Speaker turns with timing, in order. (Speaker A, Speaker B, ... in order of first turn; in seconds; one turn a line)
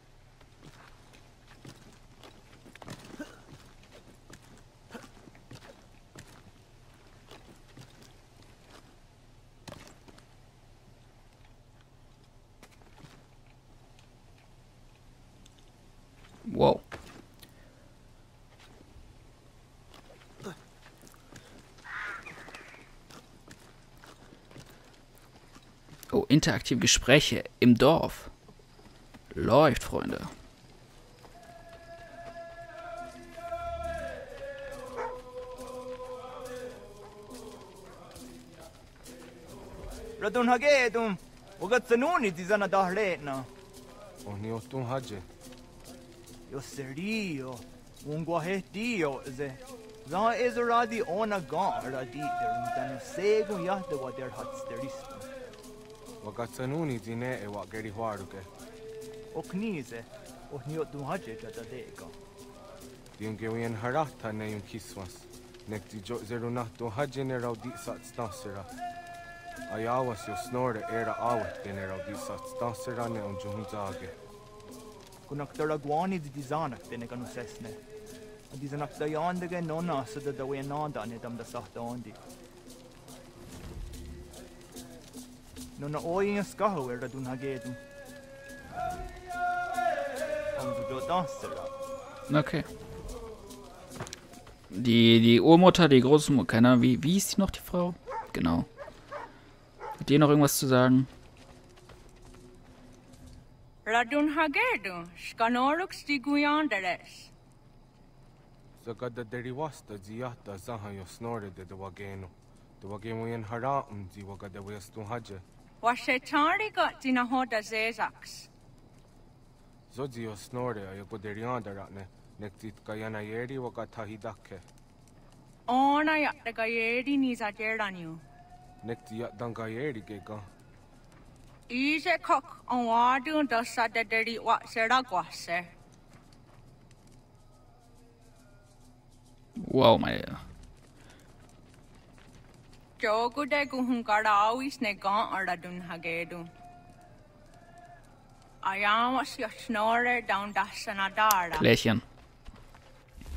Speaker A: 16.4-16.8
Speaker A: 26.1-28.3
Speaker A: 29.3-30.3
Speaker B: 40.2-43.5
Speaker C: 44.2-45.2
Speaker B: 46.5-55.3
Speaker C: 56.2-58.5
Speaker B: 59.3-62.1
Speaker C: 63.2-68.7
Speaker C: 69.7-74.1
Speaker B: 75.3-77.8
Speaker B: 78.5-82.2
Speaker B: 85.8-87.8
Speaker B: 90.5-91.7
Speaker A: 92.3-92.7
Speaker A: 94.7-98.7
Speaker A: 100.0-101.1
Speaker D: 103.8-107.3
Speaker C: 108.8-115.4
Speaker D: 115.8-118.5
Speaker C: 119.9-124.6
Speaker D: 125.7-128.2
Speaker C: 128.8-130.4
Speaker D: 131.7-135.7
Speaker A: 139.6-140.4
Speaker D: 143.0-146.5
Speaker D: 148.6-151.6
Speaker A: 151.5-152.0